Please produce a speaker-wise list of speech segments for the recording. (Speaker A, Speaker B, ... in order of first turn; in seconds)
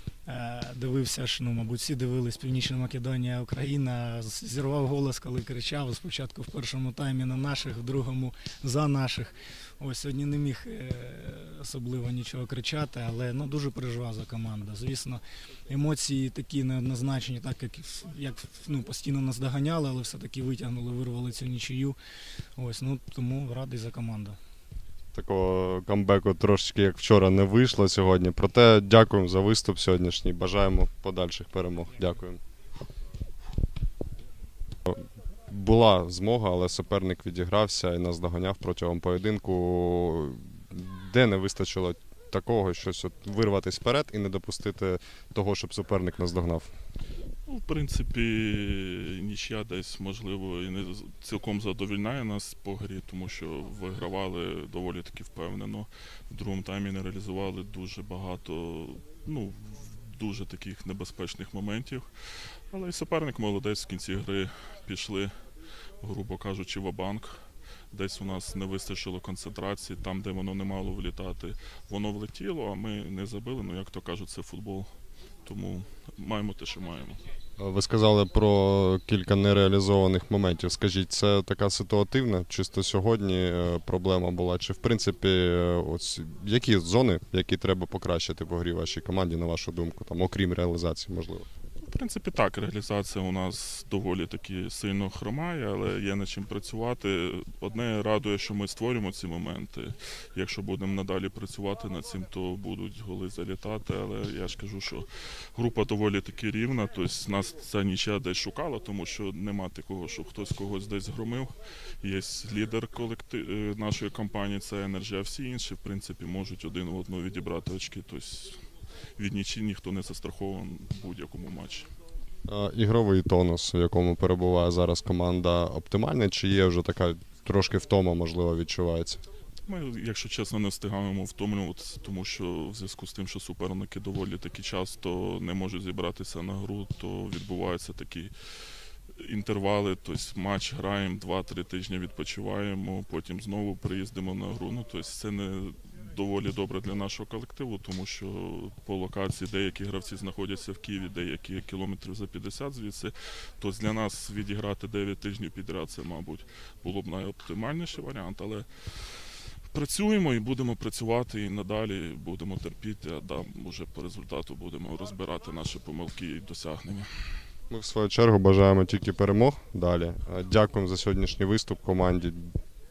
Speaker A: 0.2-22.0, 22.6-24.4
Speaker B: 25.1-32.4, 34.9-46.7, 77.6-91.5, 122.5-129.2, 167.7-172.5
Speaker C: 47.5-62.0, 62.7-65.3, 66.0-67.4, 67.9-74.9, 75.5-77.2, 91.8-118.6, 119.2-121.9, 129.7-138.3, 139.2-158.7, 159.7-167.4